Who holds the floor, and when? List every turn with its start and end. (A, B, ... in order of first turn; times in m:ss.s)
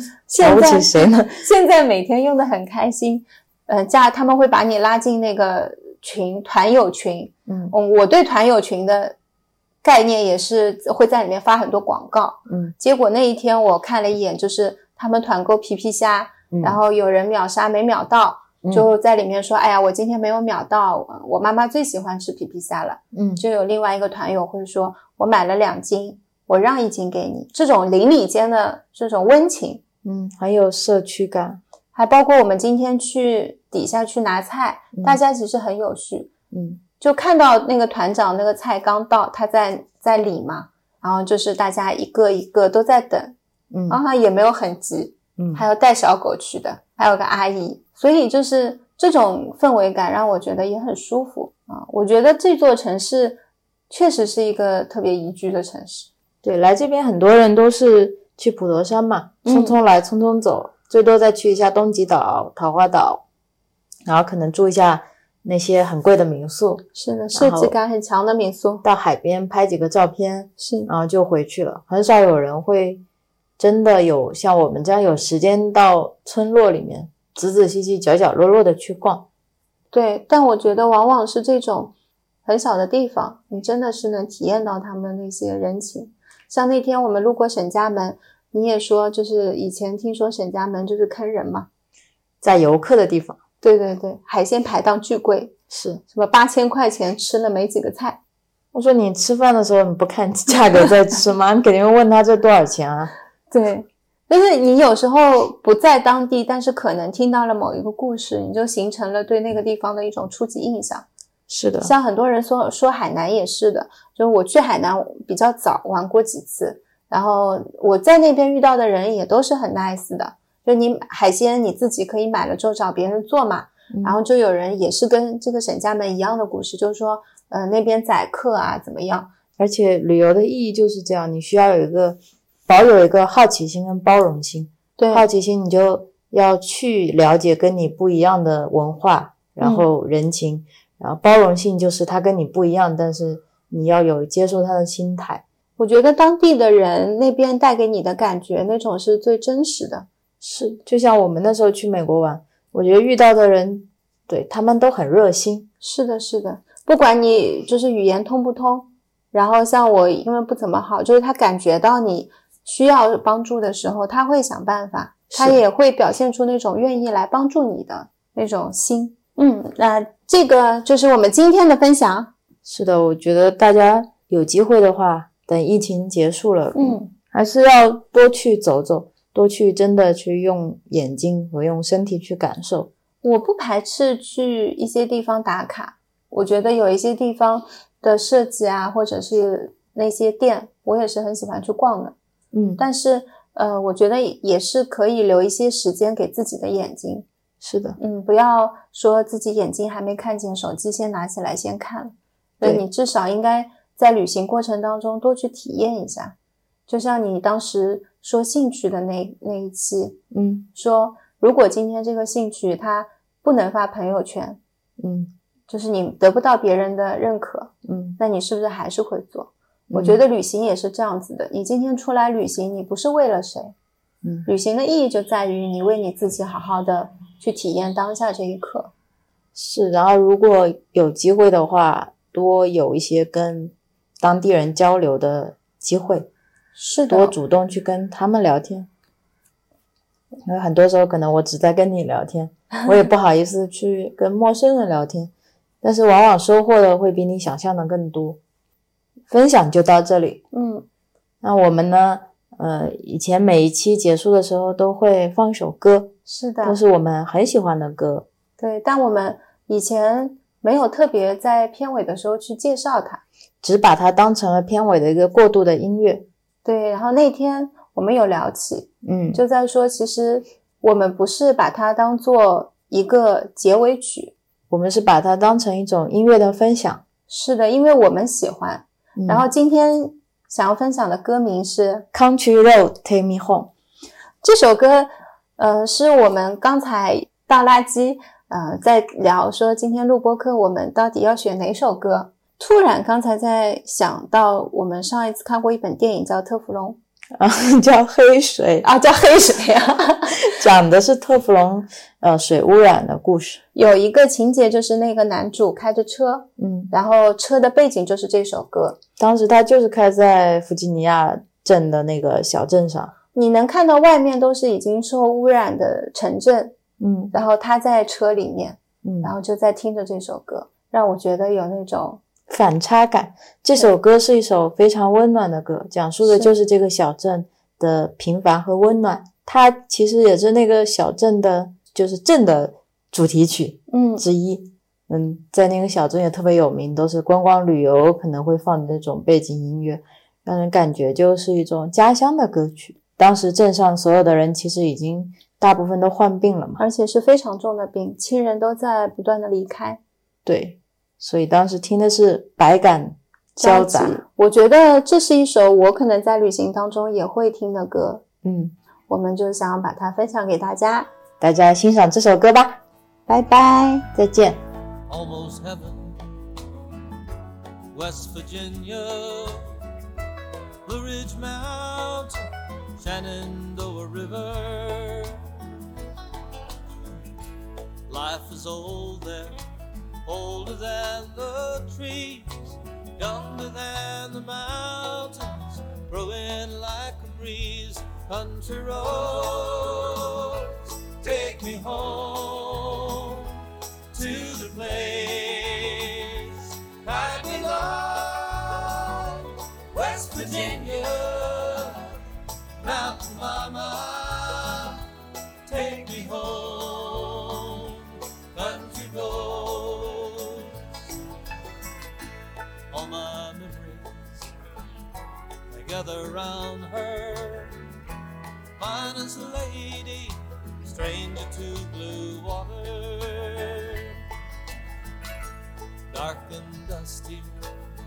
0:00.3-0:09.2 A
0:00.4-0:01.4 B
0:07.5-0:07.7 B
0:09.8-0:29.8 A
0:12.5-0:12.7 B
0:16.5-0:16.8 B
0:23.1-0:23.4 B
0:30.0-0:31.6 B
0:31.9-0:36.3 A
0:36.5-0:36.8 B
0:37.0-0:43.3 A
0:43.7-0:44.0 B
0:43.9-0:56.1 A
0:45.4-0:45.6 B
0:56.4-1:03.2 B
0:59.4-0:59.8 A
1:04.0-1:07.7 B
1:06.9-1:08.8 A
1:08.8-1:13.0 B
1:10.6-1:10.9 A
1:13.6-1:19.3 B
1:19.9-1:21.9 A
1:22.4-1:31.7 A
1:32.4-1:33.4 B
1:33.6-1:35.5 A
1:35.7-1:36.0 B
1:36.1-1:38.2 A
1:38.7-1:43.1 B
1:43.5-1:51.0 A
1:51.5-1:51.9 B
1:51.8-2:09.3 A
2:03.9-2:04.2 B
2:09.6-2:25.4 B
2:15.0-2:15.2 A
2:19.6-2:19.8 A
2:25.8-2:30.0 A
2:30.4-2:35.7 B
2:35.8-2:52.3 A
2:45.3-2:45.6 B
2:52.6-3:02.9 B
2:56.7-2:57.1 A
3:03.2-3:12.2 A
3:12.5-3:12.8 B
3:12.8-3:17.2 A
3:17.6-3:18.0 B
3:18.0-3:26.3 A
3:26.9-3:30.2 A
3:30.3-3:30.7 B
3:30.7-3:34.6 A
3:35.0-3:35.3 B
3:35.7-3:43.7 A
3:37.8-3:38.2 B
3:39.9-3:40.2 B
3:44.4-3:48.9 A
3:49.5-3:56.3 B
3:56.8-3:57.3 A
3:57.1-3:58.9 B
4:00.4-4:05.3 B
4:02.7-4:03.0 A
4:05.8-4:08.4 B
4:09.3-4:10.4 B
4:10.5-4:10.8 A
4:11.4-4:18.2 B
4:16.2-4:16.8 A
4:18.6-4:23.2 A
4:23.6-4:26.3 B
4:26.6-4:34.3 A
4:29.0-4:29.4 B
4:34.7-4:37.0 B
4:37.3-4:42.0 A
4:39.2-4:39.5 B
4:42.1-4:43.7 B
4:44.4-4:57.0 A
4:57.4-4:58.9 B
4:58.8-5:00.5 A
5:00.3-5:03.6 B
5:03.7-5:09.0 A
5:06.6-5:06.9 B
5:09.2-5:13.1 B
5:13.3-5:16.7 A
5:17.0-5:17.3 B
5:17.3-5:22.2 A
5:19.0-5:19.3 B
5:22.5-5:46.8 B
5:26.2-5:26.5 A
5:33.9-5:34.2 A
5:46.8-5:50.0 A
5:50.4-5:54.2 B
5:53.6-5:58.2 A
5:58.4-5:58.7 B
5:59.1-6:01.1 A
6:01.4-6:02.8 B
6:03.3-6:04.1 A
6:04.1-6:04.6 B
6:05.1-6:06.1 C
6:07.9-6:09.7 C
6:10.8-6:12.4 C
6:13.0-6:15.4 C
6:18.1-6:19.6 C
6:20.2-6:33.6 C
6:34.1-6:42.1 C
6:42.8-6:45.0 C
6:45.6-6:51.0 C
6:52.9-6:54.5 C
6:55.7-6:57.7 C
6:58.8-7:04.2 C
7:06.1-7:07.6 C